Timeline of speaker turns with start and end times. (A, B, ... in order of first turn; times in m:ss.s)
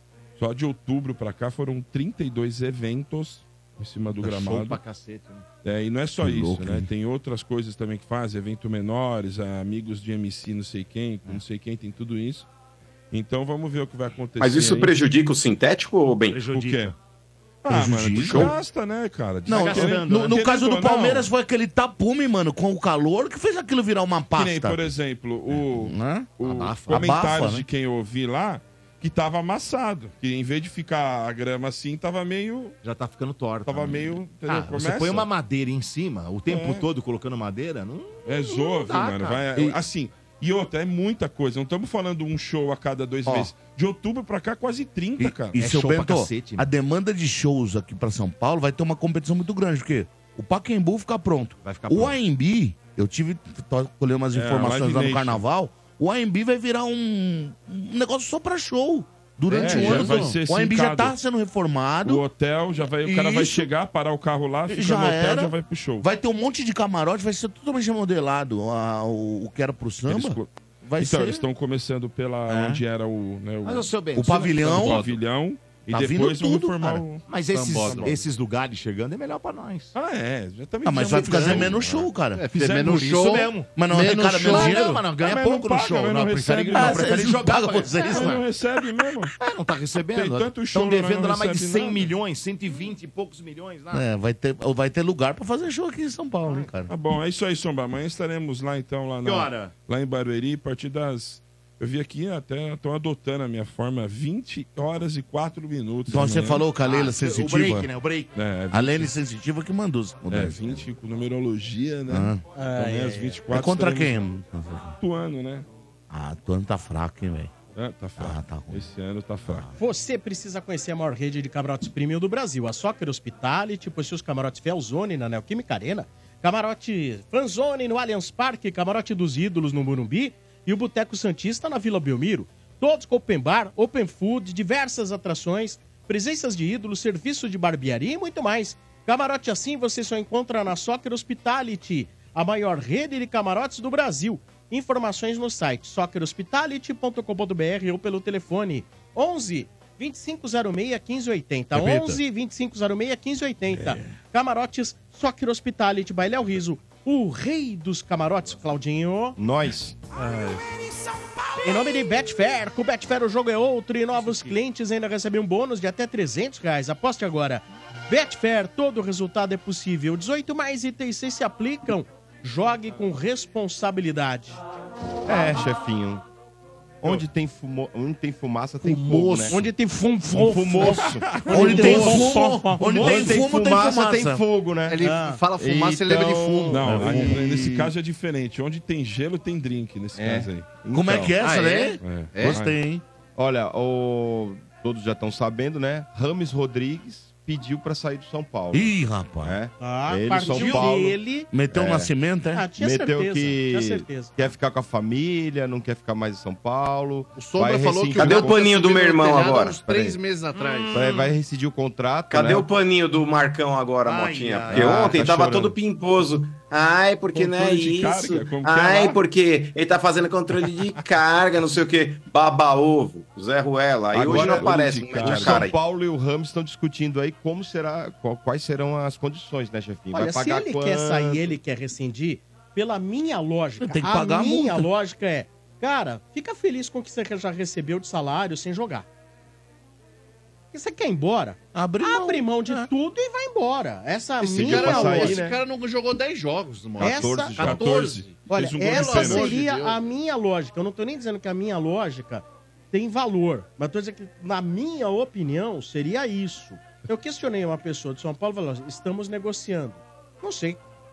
0:00.4-0:04.8 A
0:04.2-0:05.4 B
0:05.6-0:12.5 A
0:06.2-0:06.9 C
0:13.1-0:15.0 A
0:14.4-0:16.4 D
0:16.3-0:17.0 B
0:16.5-0:16.9 A
0:17.6-0:21.3 A
0:17.7-0:18.6 C
0:18.2-0:18.5 D
0:19.5-0:24.8 C
0:19.5-0:20.4 B
0:24.4-0:32.8 A
0:25.6-0:27.6 C
0:26.4-0:27.2 B
0:32.8-0:39.5 B
0:33.7-0:35.3 A
0:36.5-0:36.9 A
0:38.2-0:45.6 A
0:43.3-0:43.5 C
0:45.2-1:02.2 C
0:45.6-0:46.7 B
0:51.6-0:52.2 B
0:54.3-0:55.4 A
0:59.5-1:01.2 A
0:59.6-1:00.3 B
0:59.6-1:00.3 E
1:02.0-1:06.1 A
1:03.0-1:03.7 C
1:04.7-1:11.4 C
1:10.1-1:13.9 A
1:12.5-1:12.8 C
1:13.6-1:15.1 B
1:14.2-1:15.1 C
1:14.6-1:17.3 A
1:15.9-1:17.0 C
1:17.3-1:19.9 B
1:17.5-1:18.2 E
1:17.8-1:18.2 A
1:19.9-1:23.0 A
1:20.8-1:25.0 C
1:21.0-1:22.0 B
1:22.4-1:25.0 E
1:22.6-1:28.4 B
1:24.5-1:27.4 A
1:26.7-1:28.4 C
1:28.0-1:29.3 A
1:29.3-1:34.1 B
1:30.1-1:32.1 A
1:33.9-1:36.9 C
1:36.4-1:36.7 B
1:36.9-1:46.7 A
1:39.2-1:39.7 B
1:46.1-1:47.9 C
1:46.8-1:48.3 B
1:48.4-1:49.1 A
1:48.7-1:50.8 C
1:50.3-1:54.2 A
1:52.1-1:52.4 C
1:52.6-1:53.4 F
1:53.5-1:55.0 C
1:55.0-1:55.7 A
1:56.1-1:57.5 C
1:57.8-1:59.7 A
1:58.2-1:58.8 C
1:59.4-1:59.7 C
1:59.8-2:39.4 F
2:31.8-2:32.2 B
2:33.7-2:34.1 C
2:39.4-2:40.0 G
2:41.6-2:54.6 F
2:55.3-2:56.2 G
2:57.0-2:59.6 G
2:58.8-2:59.5 B
2:59.5-3:03.2 F
3:00.3-3:05.0 G
3:01.3-3:01.7 A
3:01.5-3:04.4 C
3:04.9-3:07.0 E
3:05.0-3:05.4 F
3:05.6-3:07.9 G
3:06.7-3:10.7 A
3:06.9-3:07.8 C
3:10.2-3:11.4 G
3:10.9-3:13.0 C
3:11.4-3:12.6 E
3:12.0-3:12.8 A
3:13.4-3:21.2 G
3:18.7-3:19.6 C
3:19.8-3:21.5 F
3:20.4-3:20.9 C
3:21.5-3:22.6 C
3:21.7-3:22.1 G
3:22.5-3:24.4 F
3:22.8-3:28.6 G
3:27.3-3:31.0 E
3:28.2-3:29.8 D
3:29.8-3:30.2 G
3:30.9-3:32.7 G
3:32.3-3:45.8 D
3:34.1-3:35.2 B
3:34.7-3:35.8 G
3:37.3-3:39.2 A
3:44.1-3:51.6 G
3:44.3-3:45.7 A
3:50.1-3:59.1 F
3:53.8-3:54.9 C
4:00.7-4:05.4 F
4:01.7-4:02.9 C
4:04.4-4:05.6 G
4:04.5-4:10.0 E
4:07.0-4:08.0 G
4:07.0-4:07.6 F
4:07.6-4:09.6 A
4:08.5-4:20.8 F